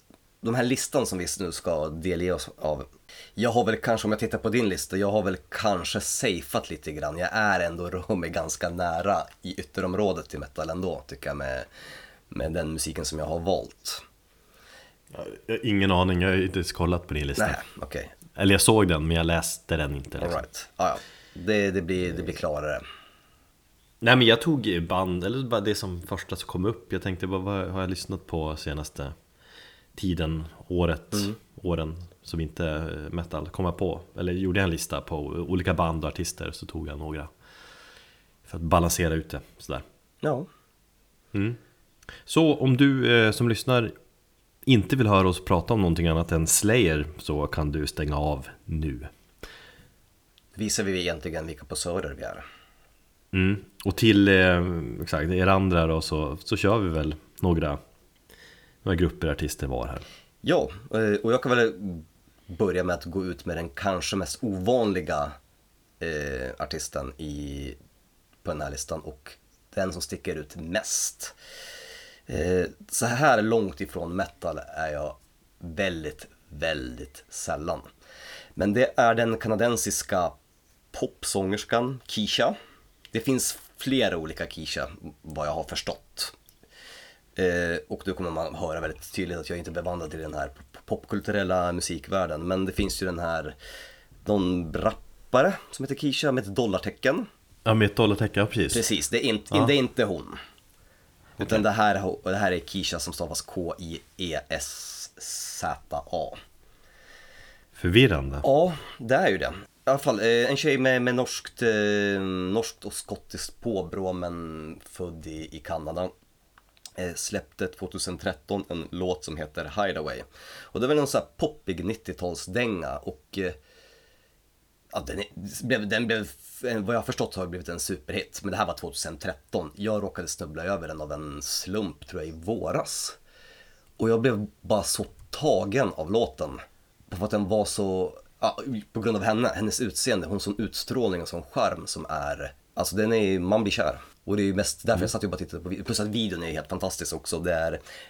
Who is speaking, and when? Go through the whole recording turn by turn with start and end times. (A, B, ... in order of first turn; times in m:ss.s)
0:00.4-0:11.7 A
0:12.3-0:14.0 A
0:15.1-0:17.6 B
0:17.4-0:18.1 A
0:18.3-0:20.4 B
0:20.2-0:22.8 A
0:24.0-0:29.1 B
0:29.9-0:37.3 B
0:38.5-0:39.8 B
0:40.2-0:40.5 A
0:41.3-0:41.6 B
0:42.2-0:43.9 B
0:44.6-0:49.1 B
0:50.6-0:52.4 A
0:53.3-0:57.8 B
0:58.8-1:00.0 B
1:00.4-1:05.4 A
1:06.0-1:07.8 A
1:08.4-1:11.3 A
1:12.3-1:17.9 A
1:18.6-1:20.3 A
1:20.9-1:22.6 A
1:23.1-1:26.3 A
1:27.4-1:33.6 A
1:34.2-1:37.3 A
1:37.6-1:38.8 B
1:38.7-1:40.4 A
1:41.4-1:46.4 A
1:47.8-1:48.4 B
1:48.4-1:56.1 A
1:57.0-2:03.6 A
2:04.9-2:13.2 A
2:14.0-2:27.8 A